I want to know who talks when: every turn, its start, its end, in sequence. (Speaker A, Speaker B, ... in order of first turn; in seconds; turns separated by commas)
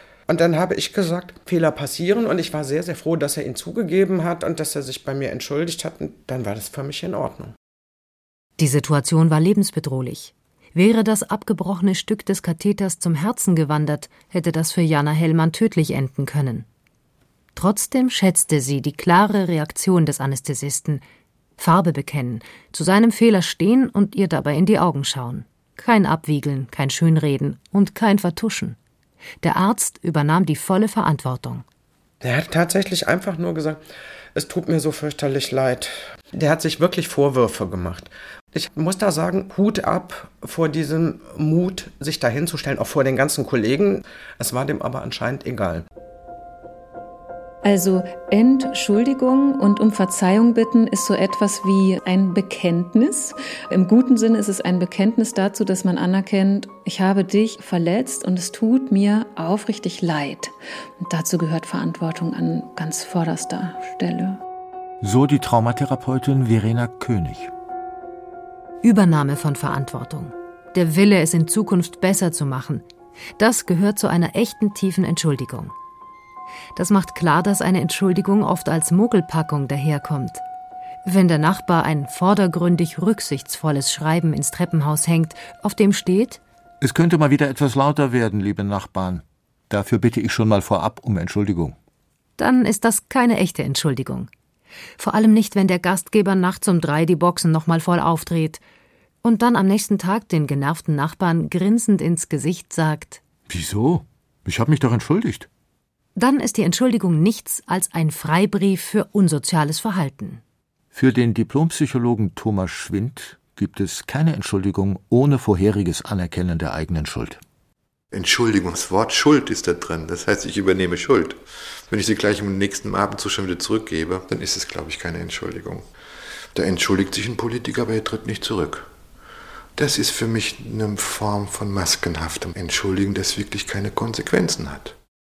Speaker A: 0.3-7.5, Speaker B: 8.6-16.7, Speaker B: 17.6-21.0, Speaker B: 21.6-28.8, Speaker B: 29.4-31.6, Speaker A: 32.2-33.8, Speaker A: 34.4-45.9, Speaker C: 47.6-64.4, Speaker D: 65.0-67.5, Speaker B: 68.8-72.8, Speaker B: 73.4-75.7, Speaker B: 76.8-80.4, Speaker B: 81.0-86.4, Speaker D: 86.8-91.8, Speaker B: 92.4-94.3, Speaker B: 95.0-98.6, Speaker B: 99.2-103.2, Speaker D: 103.5-105.5, Speaker B: 106.2-110.4, Speaker D: 110.9-117.4, Speaker E: 118.1-125.9, Speaker E: 126.5-128.9, Speaker E: 129.8-135.0